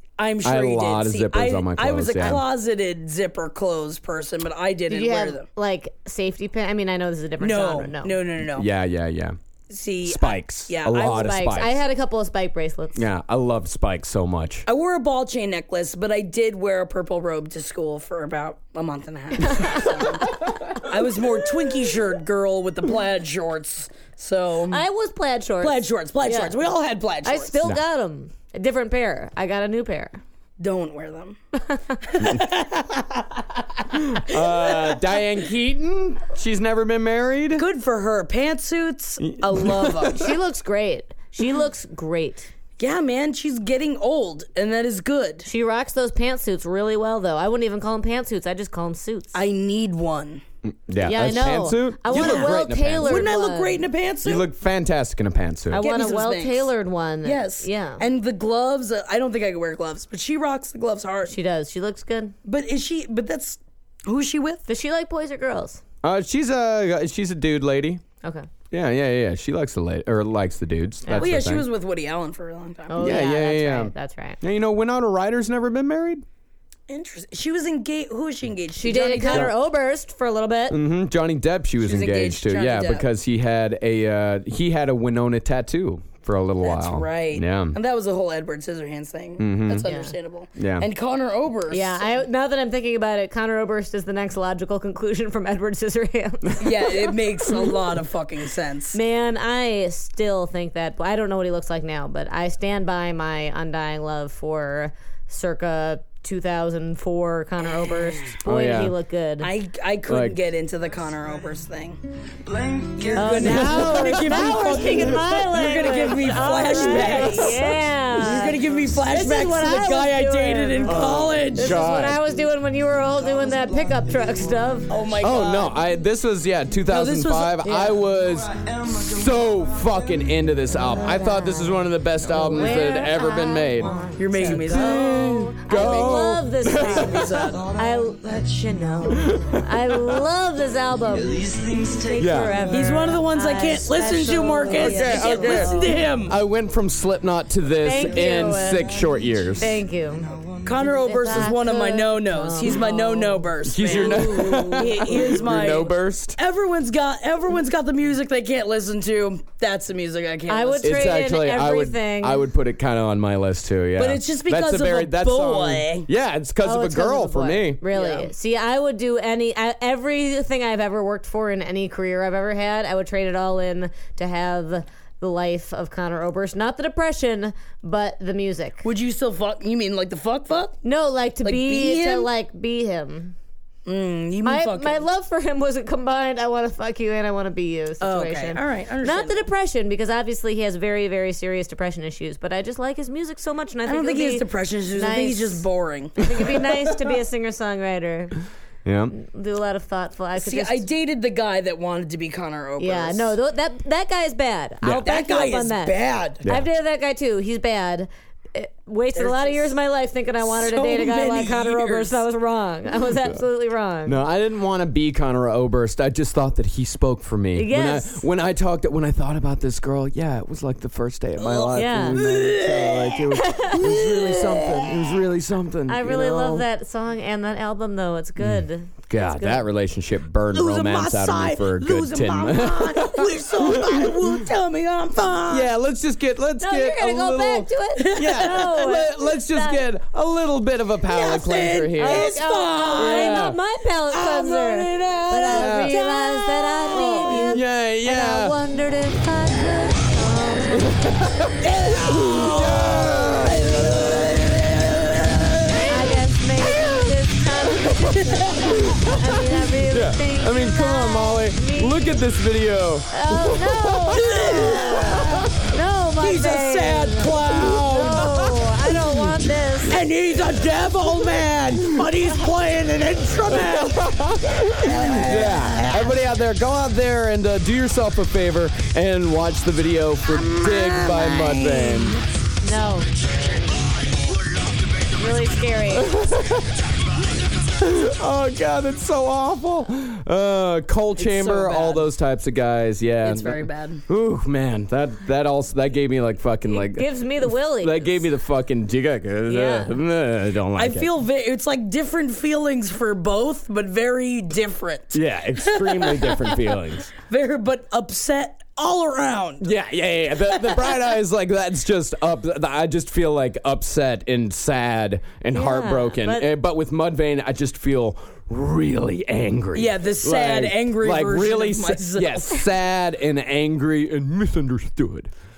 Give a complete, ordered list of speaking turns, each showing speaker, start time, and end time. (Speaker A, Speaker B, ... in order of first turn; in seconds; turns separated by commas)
Speaker A: 0.2-5.4, Speaker B: 0.4-2.4, Speaker C: 4.9-8.2, Speaker A: 7.4-8.7, Speaker B: 8.5-9.3, Speaker A: 9.7-11.3, Speaker B: 10.0-11.8, Speaker C: 10.9-13.1, Speaker B: 12.9-14.6, Speaker A: 14.7-24.8, Speaker C: 19.5-19.8, Speaker C: 24.7-26.6, Speaker A: 25.6-27.6, Speaker C: 27.2-30.2, Speaker A: 30.6-31.4, Speaker C: 31.7-32.0, Speaker A: 32.0-35.0, Speaker B: 33.9-37.6, Speaker A: 37.5-40.3, Speaker B: 39.2-40.3, Speaker C: 40.1-42.5, Speaker A: 42.8-45.5, Speaker C: 45.5-49.4, Speaker A: 49.3-50.4, Speaker B: 50.6-53.3, Speaker C: 51.0-53.8, Speaker A: 52.1-54.5, Speaker B: 54.2-55.8, Speaker C: 55.7-58.0, Speaker A: 55.8-56.7, Speaker A: 57.2-61.3, Speaker C: 61.3-62.3, Speaker A: 62.5-64.6, Speaker C: 64.7-65.8, Speaker B: 66.0-68.0, Speaker C: 68.2-68.5, Speaker B: 68.7-71.7, Speaker C: 71.0-71.3, Speaker A: 71.2-73.0, Speaker C: 72.9-74.4, Speaker B: 73.0-76.2, Speaker A: 76.9-79.5, Speaker C: 78.8-80.8, Speaker B: 79.3-79.5, Speaker B: 80.7-87.8, Speaker A: 81.8-83.0, Speaker A: 86.6-92.2, Speaker B: 89.4-89.8, Speaker C: 89.8-90.1, Speaker B: 90.6-90.9, Speaker C: 91.7-97.7, Speaker A: 96.6-99.0, Speaker C: 98.9-109.5, Speaker A: 107.9-108.3, Speaker B: 108.4-108.9, Speaker A: 109.4-112.0, Speaker B: 110.1-110.4, Speaker A: 112.8-121.8, Speaker C: 113.1-124.9, Speaker B: 113.6-114.2, Speaker B: 117.0-117.3, Speaker B: 120.8-122.2, Speaker A: 124.9-125.7, Speaker B: 125.2-134.5, Speaker A: 126.9-127.8, Speaker C: 127.6-128.0, Speaker C: 131.0-145.9, Speaker A: 134.2-137.6, Speaker B: 135.6-137.4, Speaker B: 139.2-139.7, Speaker B: 142.2-142.7, Speaker A: 142.7-146.3, Speaker B: 144.7-149.8, Speaker C: 147.8-148.9, Speaker C: 149.6-150.3, Speaker A: 150.6-161.1, Speaker C: 150.8-154.8, Speaker B: 153.6-156.4, Speaker C: 160.5-162.4, Speaker B: 160.8-167.8, Speaker A: 164.0-166.1, Speaker C: 166.6-178.8, Speaker A: 167.9-168.3, Speaker A: 178.8-180.8, Speaker C: 180.8-183.3, Speaker A: 181.4-182.3, Speaker A: 183.8-185.0, Speaker C: 184.4-194.4, Speaker A: 188.0-189.5, Speaker A: 193.8-196.7, Speaker C: 194.9-195.6, Speaker C: 196.2-198.4, Speaker B: 198.8-199.1, Speaker C: 199.1-200.8, Speaker A: 200.4-203.3, Speaker C: 202.8-214.2, Speaker B: 204.8-205.1, Speaker A: 205.0-206.4, Speaker A: 209.1-209.7, Speaker A: 210.4-212.2, Speaker B: 214.1-226.6, Speaker C: 217.6-218.2, Speaker A: 221.4-225.0, Speaker C: 221.7-222.2, Speaker C: 223.4-223.7, Speaker C: 225.9-229.6, Speaker B: 228.4-234.5, Speaker A: 230.5-235.7, Speaker B: 235.5-242.3, Speaker C: 236.6-239.8, Speaker A: 238.0-238.8, Speaker A: 241.1-243.4, Speaker C: 242.0-251.0, Speaker B: 242.9-243.6, Speaker A: 244.1-247.6, Speaker B: 245.5-245.9, Speaker B: 247.2-248.6, Speaker B: 250.8-254.5, Speaker A: 251.6-256.2, Speaker C: 255.8-262.2, Speaker B: 256.6-257.1, Speaker A: 258.0-259.1, Speaker B: 258.6-259.2, Speaker B: 259.9-265.5, Speaker C: 263.1-270.0, Speaker A: 264.1-265.5, Speaker A: 266.2-268.6, Speaker B: 267.5-268.3, Speaker A: 269.9-274.1, Speaker B: 273.5-282.2, Speaker A: 274.7-276.2, Speaker A: 280.4-282.2, Speaker C: 282.6-283.1, Speaker C: 285.1-286.1, Speaker B: 285.9-286.8, Speaker B: 287.8-301.1, Speaker A: 291.2-292.1, Speaker A: 293.2-294.0, Speaker C: 296.6-298.2, Speaker C: 299.5-299.9, Speaker A: 300.8-309.7, Speaker B: 305.1-307.1, Speaker B: 309.6-325.3, Speaker A: 310.5-311.0, Speaker C: 315.5-316.5, Speaker A: 319.7-322.6